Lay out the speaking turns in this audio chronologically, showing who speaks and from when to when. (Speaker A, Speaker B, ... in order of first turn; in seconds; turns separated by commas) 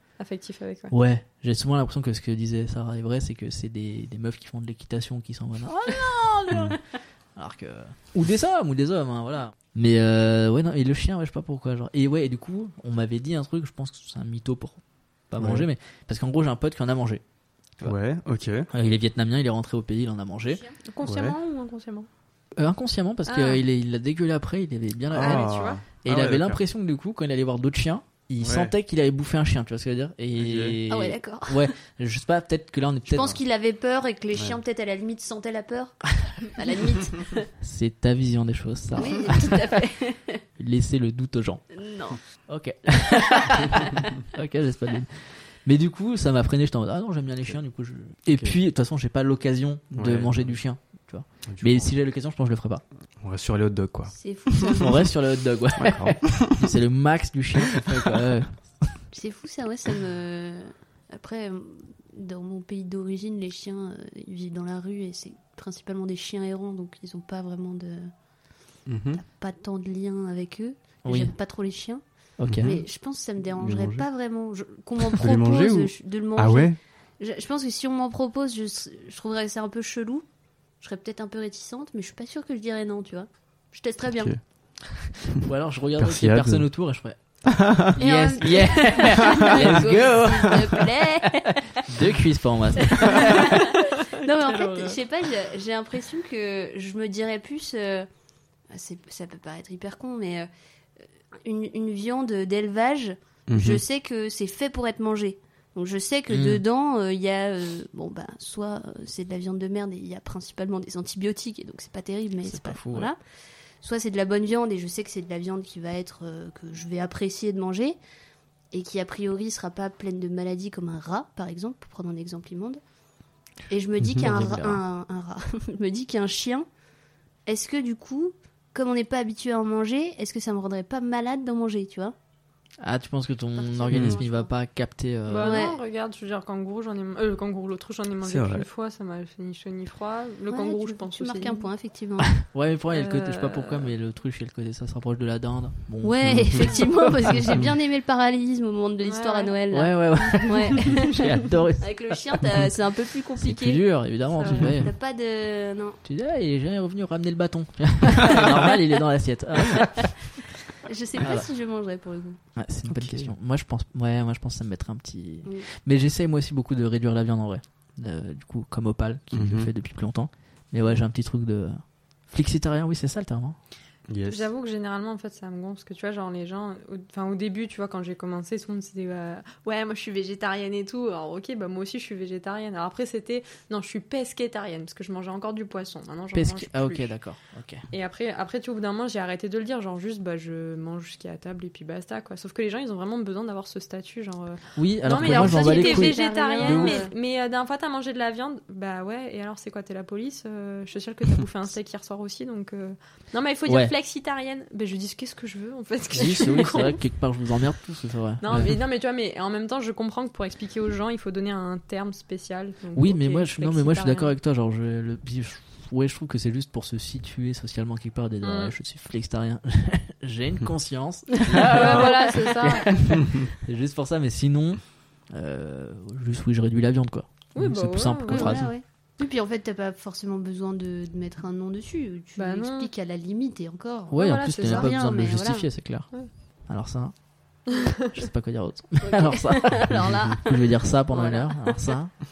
Speaker A: 0.2-0.9, Speaker B: 0.9-6.8, Speaker B: 7.3-17.2, Speaker C: 15.4-15.7, Speaker C: 17.8-18.7, Speaker B: 18.7-20.6, Speaker A: 20.8-22.1, Speaker C: 21.0-21.4, Speaker B: 22.5-25.5, Speaker A: 23.2-23.6, Speaker C: 25.1-26.6, Speaker A: 25.1-25.8, Speaker B: 26.0-33.4, Speaker C: 28.4-28.7, Speaker C: 30.4-30.8, Speaker D: 30.9-31.7, Speaker D: 33.1-37.5, Speaker B: 37.6-39.6, Speaker D: 38.9-40.4, Speaker B: 40.6-41.6, Speaker D: 41.7-42.2, Speaker B: 42.3-52.8, Speaker D: 43.5-43.8, Speaker C: 48.3-48.5, Speaker C: 49.9-50.6, Speaker C: 51.5-51.9, Speaker C: 53.2-54.9, Speaker D: 54.1-55.0, Speaker B: 54.7-59.0, Speaker C: 55.8-56.6, Speaker D: 59.1-68.1, Speaker C: 68.9-69.2, Speaker D: 69.1-72.0, Speaker B: 71.0-71.3, Speaker B: 72.4-72.8, Speaker C: 72.4-72.8, Speaker D: 72.6-80.2, Speaker C: 73.6-74.0, Speaker C: 75.2-76.8, Speaker D: 80.8-84.3, Speaker C: 84.1-84.4, Speaker B: 85.2-87.2, Speaker C: 86.0-86.7, Speaker C: 87.5-87.9, Speaker B: 87.7-93.8, Speaker D: 88.0-91.8, Speaker C: 89.4-89.8, Speaker D: 92.9-98.1, Speaker A: 93.3-93.6, Speaker A: 94.4-95.0, Speaker D: 98.7-100.5, Speaker D: 101.4-113.2, Speaker C: 103.5-103.8, Speaker B: 106.3-106.6, Speaker B: 112.5-113.1, Speaker D: 113.8-118.0, Speaker D: 118.7-122.8, Speaker D: 123.7-126.7, Speaker C: 124.0-124.5, Speaker B: 124.2-124.8, Speaker D: 127.5-132.1, Speaker B: 132.8-135.7, Speaker D: 133.6-134.5, Speaker C: 133.9-134.2, Speaker A: 135.3-141.7, Speaker D: 135.4-135.8, Speaker C: 138.2-138.7, Speaker D: 140.5-142.3, Speaker B: 142.3-147.6, Speaker A: 142.9-143.9, Speaker D: 146.0-151.2, Speaker C: 146.3-146.7, Speaker A: 149.0-149.5, Speaker B: 149.7-152.7, Speaker D: 151.8-153.8, Speaker B: 153.4-154.9, Speaker A: 154.4-154.7, Speaker D: 154.4-156.0, Speaker B: 156.0-160.3, Speaker D: 160.8-162.4, Speaker B: 161.2-161.5, Speaker B: 162.5-173.6, Speaker C: 162.9-163.3, Speaker C: 169.3-169.7, Speaker C: 174.1-174.5, Speaker A: 174.2-187.1, Speaker B: 186.3-187.8, Speaker A: 187.9-207.0, Speaker B: 194.8-197.0, Speaker D: 195.1-197.1, Speaker B: 203.7-203.9, Speaker B: 206.1-208.8, Speaker A: 208.4-214.3, Speaker B: 212.9-228.7, Speaker A: 218.4-218.7, Speaker D: 221.5-222.7, Speaker A: 221.5-222.9, Speaker A: 227.5-228.6, Speaker D: 228.3-235.7, Speaker A: 232.4-232.9, Speaker B: 234.1-236.1, Speaker A: 234.1-234.9, Speaker B: 236.7-237.1, Speaker B: 237.7-242.1, Speaker A: 237.7-238.1, Speaker D: 239.0-240.7, Speaker A: 241.1-241.5